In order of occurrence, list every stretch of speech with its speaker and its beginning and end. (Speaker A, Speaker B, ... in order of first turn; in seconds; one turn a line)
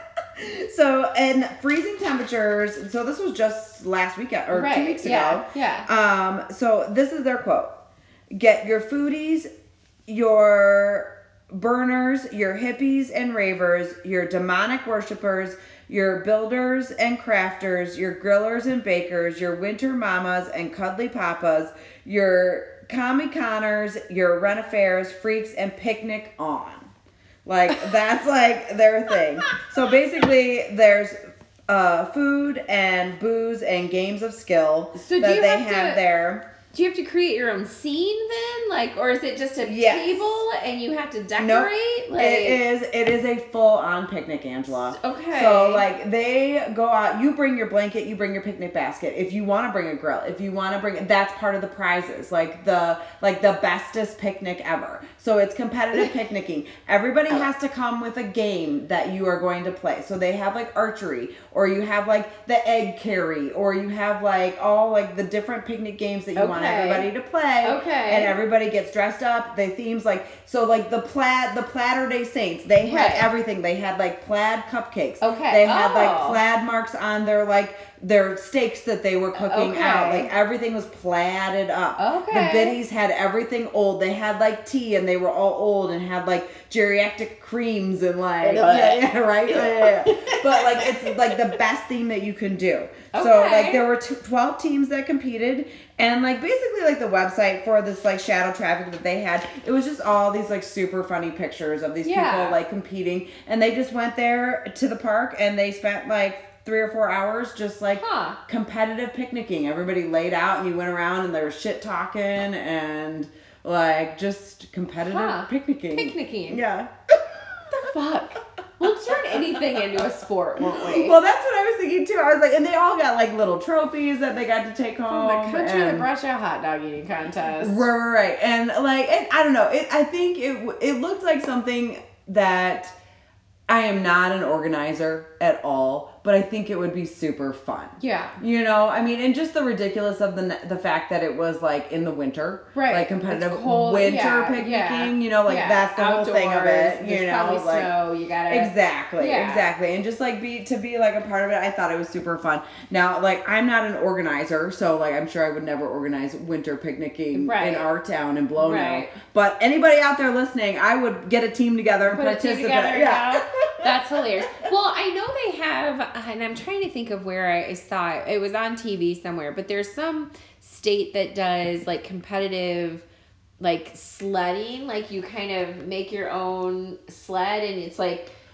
Speaker A: 0.3-7.7
Speaker B: 4.5-5.9
Speaker A: 8.3-9.5
Speaker A: 10.1-26.9
Speaker A: 27.4-36.4
Speaker B: 34.9-36.0
Speaker B: 36.7-42.6
Speaker A: 39.6-40.4
Speaker A: 41.4-117.7
Speaker B: 44.9-45.9
Speaker B: 66.3-67.1
Speaker B: 67.6-68.3
Speaker B: 72.8-73.3
Speaker B: 75.2-76.4
Speaker B: 79.3-80.3
Speaker B: 82.0-82.8
Speaker B: 88.4-91.6
Speaker B: 93.1-93.8
Speaker B: 102.0-102.6
Speaker B: 107.9-108.4
Speaker B: 115.0-116.6
Speaker B: 117.7-121.2
Speaker A: 119.1-119.8
Speaker A: 120.6-126.1
Speaker B: 125.1-127.9
Speaker A: 127.6-132.9
Speaker A: 133.7-147.9
Speaker B: 138.0-138.4
Speaker B: 142.7-149.7
Speaker A: 148.5-163.9
Speaker B: 157.3-157.9
Speaker B: 158.6-159.2
Speaker B: 162.1-173.0
Speaker B: 173.6-178.3